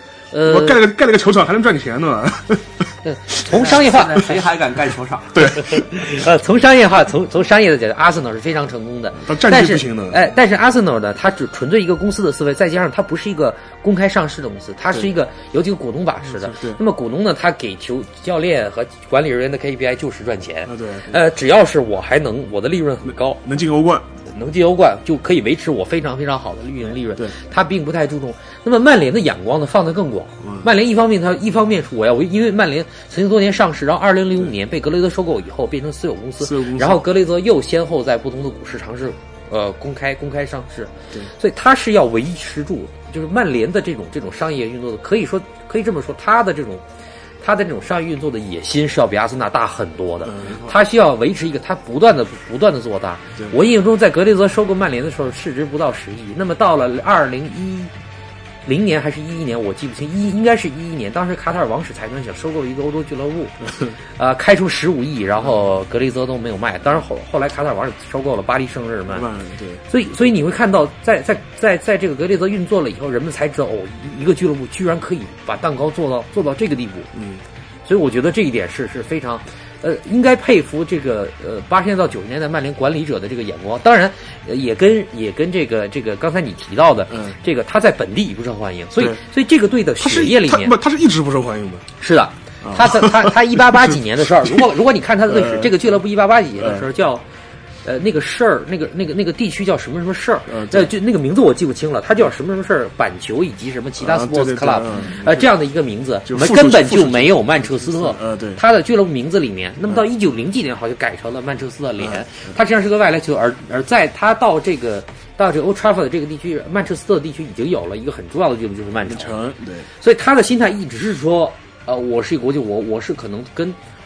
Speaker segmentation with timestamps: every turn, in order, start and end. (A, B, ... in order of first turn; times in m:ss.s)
0:00.3-0:00.8 A
0:00.4-0:03.7 B
0:03.0-0:04.4 A
0:03.5-0:05.5 C
0:05.3-0:06.0 B
0:05.4-0:23.4 A
0:09.2-0:10.3 B
0:16.2-0:16.8 B
0:20.6-0:21.2 B
0:23.1-0:24.0 B
0:24.2-0:46.8 A
0:30.4-0:30.7 B
0:36.4-0:37.0 B
0:47.4-0:57.9 A
0:50.2-0:50.8 B
0:58.6-1:09.3 A
1:09.1-1:09.8 B
1:09.9-1:17.1 A
1:17.1-1:17.4 B
1:17.8-1:30.7 A
1:27.1-1:27.4 B
1:29.0-1:29.2 B
1:30.0-1:31.9 B
1:32.0-1:37.2 A
1:32.6-1:34.6 B
1:35.3-1:35.9 B
1:36.6-1:36.9 B
1:37.8-1:59.4 A
1:40.5-1:40.9 B
1:44.0-1:45.5 B
1:46.2-1:48.6 B
1:52.0-1:52.5 B
1:59.0-1:59.9 B
2:00.0-2:03.8 A